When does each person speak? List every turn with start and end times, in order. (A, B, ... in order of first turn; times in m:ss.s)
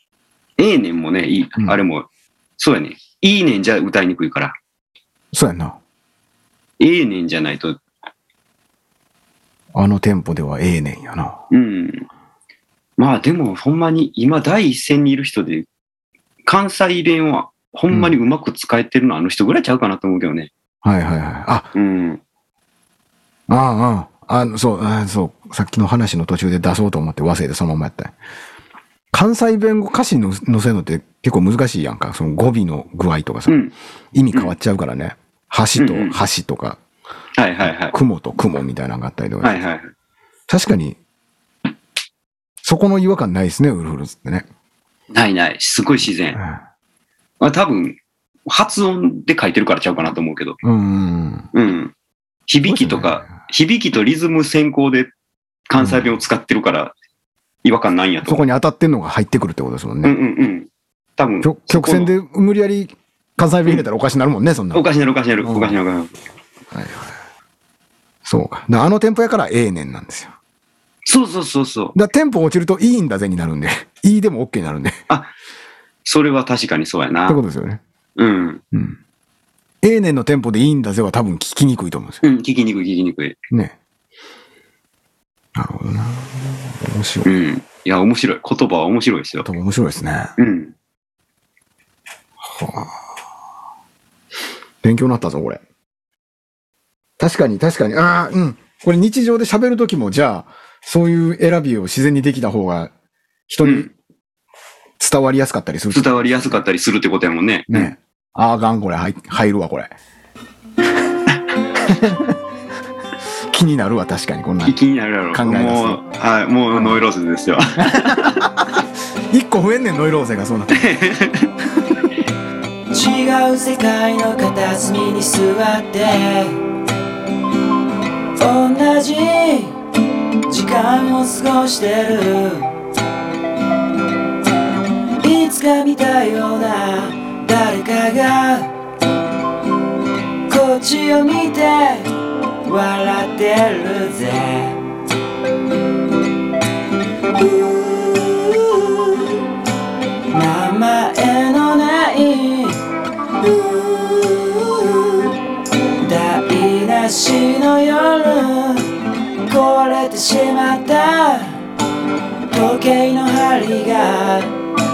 0:00.6-0:02.1 A
0:02.6-0:04.6 A
0:05.3-0:05.8 B
0:06.8-0:07.8 A
0:09.7-0:11.4 B
0:11.5-0:12.1 A
0:13.0-0:15.7 A
0:16.5-0:20.5 A
0:17.9-0:18.2 B
0:20.8-0:21.7 B
0:21.7-0:22.2 A
0:23.5-0:28.1 B
0:29.1-0:36.8 B
0:33.5-0:33.7 A
0:35.8-0:36.2 A
0:37.4-0:38.0 A
0:37.6-0:39.6 B
0:39.4-0:39.9 A
0:40.5-0:41.0 B
0:42.6-0:44.5 B
0:45.1-0:46.4 A
0:46.4-0:46.6 B
0:47.4-0:50.6 A
0:50.6-0:51.5 B
0:51.5-0:51.9 A
0:52.5-0:55.1 A
0:52.6-0:53.3 B
0:55.7-0:56.9 A
0:55.8-0:56.2 B
0:57.6-0:58.4 A
0:58.2-1:00.2 B
1:00.0-1:02.1 A
1:01.4-1:04.8 B
1:04.7-1:06.2 A
1:05.4-1:05.8 B
1:06.7-1:07.1 B
1:08.2-1:10.3 B
1:11.0-1:12.0 A
1:12.0-1:15.0 B
1:16.0-1:17.4 A
1:17.3-1:17.8 B
1:18.2-1:18.6 A
1:18.7-1:19.0 B
1:19.8-1:22.2 B
1:22.2-1:23.4 A
1:23.5-1:23.8 B
1:25.6-1:27.3 B
1:27.2-1:29.5 A
1:29.4-1:30.3 B
1:30.4-1:30.7 A
1:32.4-1:33.0 B
1:34.8-1:35.6 B
1:37.2-1:42.9 B
1:43.5-1:43.9 B
1:43.6-1:43.9 A
1:45.0-1:46.6 B
1:45.9-1:47.9 A
1:47.7-1:49.9 B
1:51.9-1:52.4 B
1:53.5-1:54.8 B
1:54.7-1:58.5 A
1:55.3-1:56.0 B
1:56.7-1:57.0 B
1:57.8-1:58.8 B
1:59.3-2:00.9 B
2:00.8-2:01.5 A
2:02.9-2:06.6 C
2:08.4-2:09.7 C
2:10.5-2:12.7 C
2:15.2-2:18.7 C
2:20.5-2:22.1 C
2:22.6-2:24.8 C
2:27.3-2:29.4 C
2:30.3-2:32.8 C
2:33.4-2:35.4 C
2:36.0-2:38.9 C
2:39.4-2:41.6 C
2:42.5-2:44.5 C